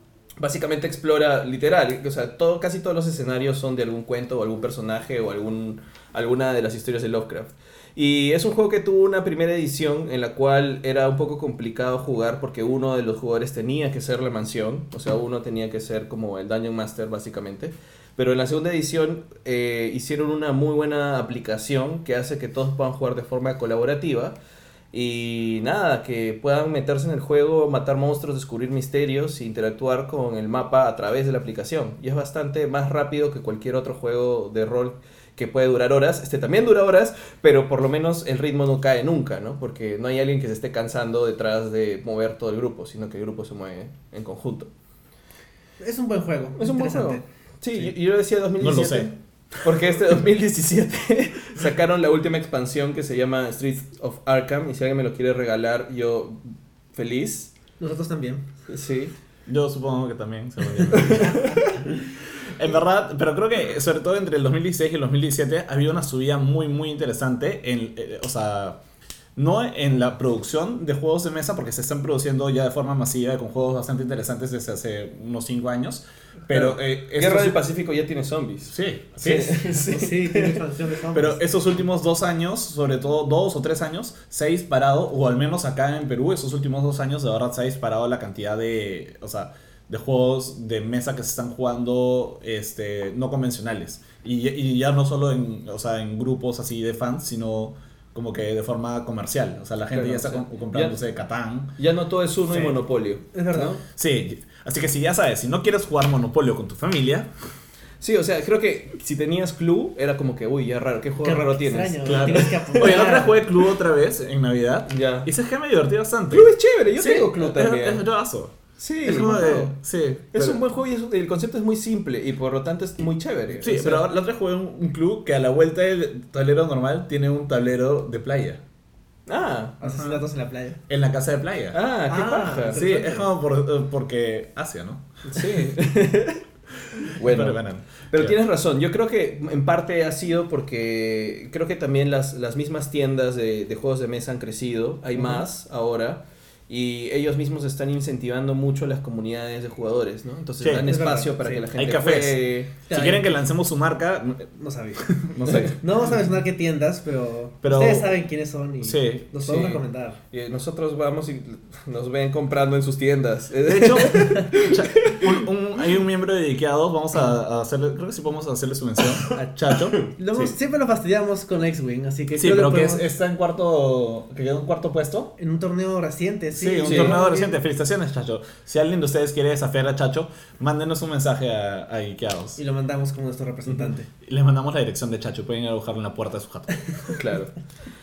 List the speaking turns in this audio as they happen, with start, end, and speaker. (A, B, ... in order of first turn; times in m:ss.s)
0:00.4-0:24.4 A
0:24.9-0:44.7 A
0:45.8-0:47.2 B
0:46.6-0:57.5 A
0:48.6-0:49.1 C
0:57.8-0:58.4 B
0:58.7-0:59.1 A
0:59.5-1:01.6 C
1:00.9-1:01.8 A
1:02.4-1:08.8 C
1:09.4-1:17.6 C
1:16.5-1:20.6 A
1:18.7-1:19.6 C
1:19.6-1:21.4 B
1:21.1-1:41.7 C
1:39.9-1:41.0 A
1:41.8-1:43.8 A
1:43.3-1:43.8 B
1:43.9-1:47.3 C
1:48.0-1:53.0 A
1:51.2-1:53.5 B
1:52.0-2:00.6 C
1:54.9-1:55.3 A
1:56.3-1:58.0 A
1:58.8-1:59.7 A
2:00.3-2:04.1 A
2:03.6-2:08.6 C
2:09.3-2:09.8 A
2:09.8-2:10.8 B
2:09.9-2:10.2 C
2:10.9-2:11.8 C
2:11.7-2:12.8 A
2:12.1-2:13.2 B
2:12.7-2:15.4 C
2:15.3-2:16.4 A
2:17.0-2:32.7 A
2:17.2-2:18.3 C
2:30.6-2:30.9 C
2:30.8-2:31.7 B
2:31.7-2:34.5 C
2:32.9-2:33.3 B
2:34.6-2:40.2 B
2:35.0-2:35.8 C
2:35.5-2:35.7 A
2:37.6-2:38.1 C
2:38.8-2:39.8 C
2:39.5-2:39.8 A
2:40.3-2:45.3 A
2:43.6-2:50.5 C
2:49.3-2:53.0 B
2:52.3-2:55.3 C
2:55.4-2:57.5 B
2:56.6-3:02.6 C
2:56.8-2:57.2 A
3:02.6-3:04.1 B
3:04.2-3:07.1 C
3:07.1-3:07.6 A